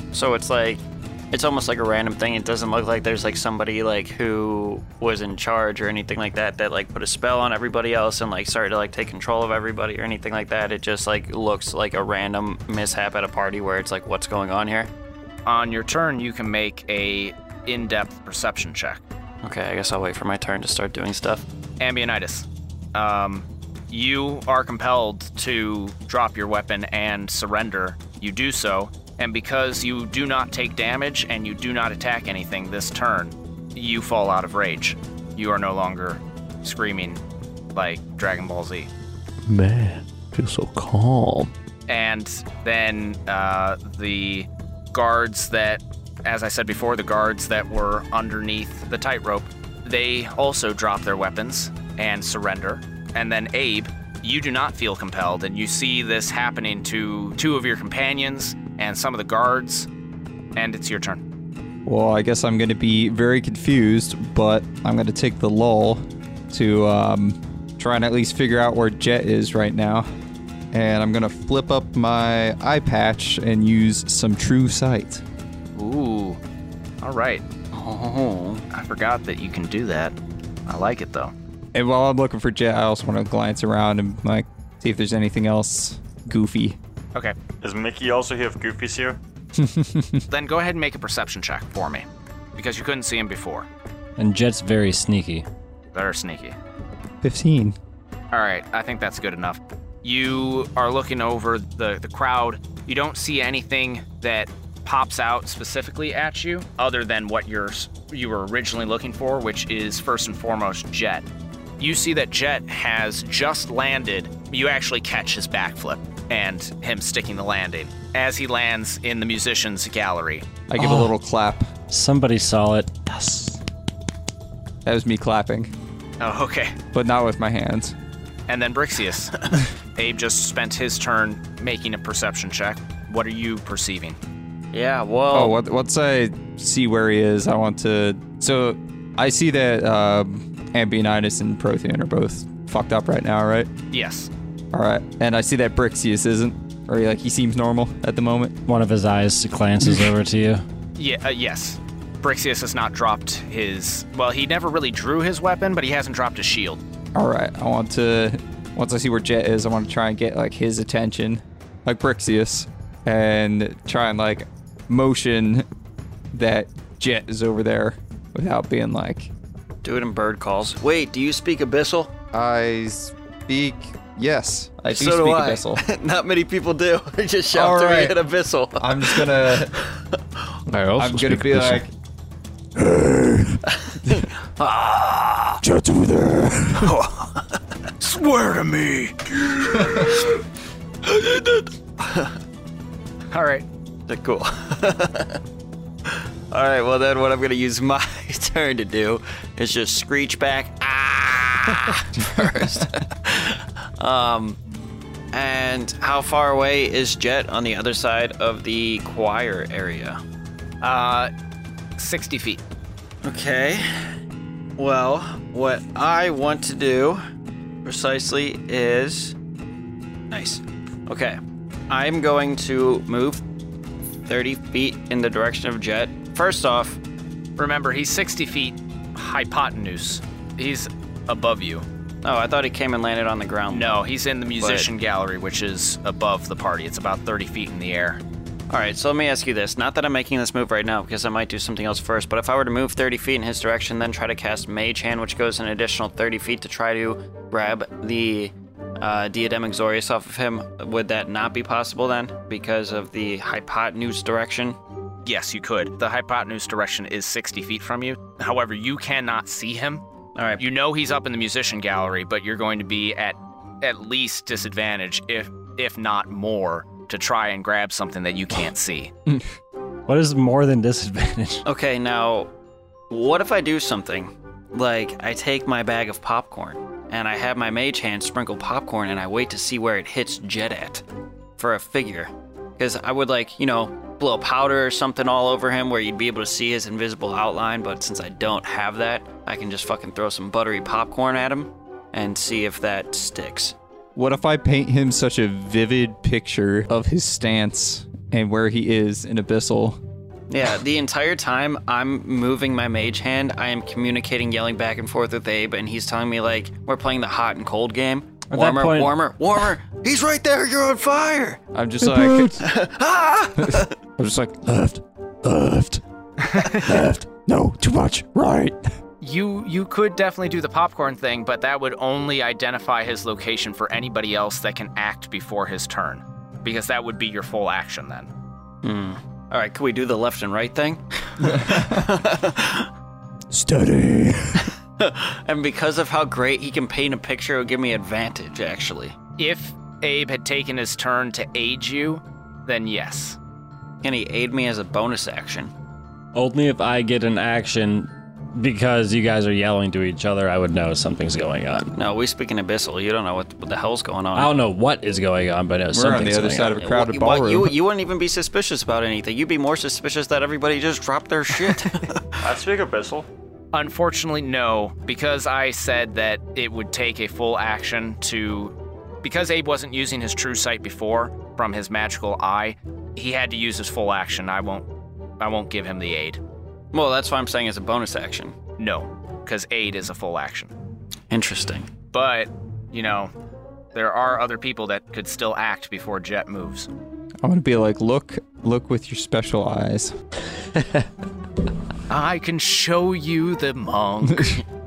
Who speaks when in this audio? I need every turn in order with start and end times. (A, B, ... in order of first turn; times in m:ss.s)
0:00.1-0:14.9 A
0:15.5-0:19.0 B
0:19.4-0:21.5 A
0:21.8-0:37.2 B
0:37.8-0:38.9 B
0:39.5-0:41.5 C
0:41.9-0:59.9 B
1:00.6-1:01.2 B
1:01.9-1:10.1 D
1:10.7-1:15.2 D
1:15.8-1:16.4 B
1:17.0-1:17.4 B
1:17.7-1:18.6 A
1:18.7-1:20.2 B
1:20.7-1:21.3 B
1:21.7-1:26.8 D
1:27.6-1:29.2 E
1:29.6-1:30.2 D
1:30.3-1:33.7 B
1:34.2-1:35.5 F
1:35.9-1:36.6 B
1:37.2-1:37.8 D
1:38.3-1:51.3 B
1:51.8-2:00.5 B
2:00.7-2:01.6 D
2:00.8-2:01.1 F
2:01.9-2:03.6 F
2:04.8-2:05.7 D
2:06.2-2:06.8 B
2:06.9-2:08.0 D
2:08.5-2:09.4 B
2:10.0-2:14.2 B
2:14.7-2:15.6 A
2:15.3-2:23.7 D
2:23.9-2:24.3 B
2:24.7-2:28.6 D
2:28.7-2:30.6 F
2:31.0-2:36.8 B
2:37.2-2:45.7 D
2:46.3-2:49.3 D
2:49.8-2:52.1 A
2:52.3-2:55.8 D
2:54.9-3:00.2 A
2:57.5-2:58.2 D
2:58.8-2:59.7 D
3:00.7-3:01.8 C
3:01.0-3:01.9 D
3:02.8-3:04.3 D
3:03.8-3:05.5 A
3:05.6-3:07.0 D
3:06.8-3:07.4 B
3:08.0-3:10.0 B
3:09.8-3:10.1 D
3:12.0-3:12.4 A
3:13.3-3:13.6 B
3:14.1-3:15.4 A
3:16.0-3:24.6 A
3:22.2-3:22.9 D
3:25.3-3:30.2 A
3:30.8-3:31.3 B
3:32.0-3:32.6 B
3:33.2-3:33.9 A
3:34.8-3:37.2 A
3:37.8-3:39.4 A
3:40.3-3:43.4 A
3:44.3-3:47.0 A
3:47.6-3:51.8 B
3:52.2-3:54.0 A
3:53.7-3:58.2 B
3:54.6-3:54.9 A
3:58.7-4:14.8 A
4:15.2-4:20.0 B
4:20.4-4:20.6 A
4:20.6-4:29.1 B
4:30.1-4:31.6 F
4:31.6-4:32.5 A
4:33.1-4:41.0 A
4:41.6-4:53.8 A
4:54.2-5:00.0 D
5:00.5-5:13.9 A
5:08.5-5:09.2 F
5:11.7-5:12.7 D
5:13.6-5:18.8 D
5:16.4-5:16.8 B
5:19.2-5:28.3 B
5:28.8-5:32.9 A
5:31.6-5:31.9 D
5:33.5-5:34.7 D
5:34.6-5:39.2 A
5:39.4-5:43.4 B
5:44.0-5:45.7 A
5:46.4-5:51.9 F
5:52.0-5:54.5 A
5:54.4-5:56.8 F
5:55.9-5:57.8 D
5:56.7-6:02.4 A
6:02.4-6:03.3 E
6:03.7-6:14.9 B
6:15.4-6:16.4 B
6:16.9-6:18.6 A
6:18.8-6:20.7 B
6:21.3-6:21.9 A
6:22.1-6:23.3 B
6:24.0-6:26.9 B
6:27.4-6:30.1 D
6:32.1-6:34.6 B
6:34.3-6:34.6 D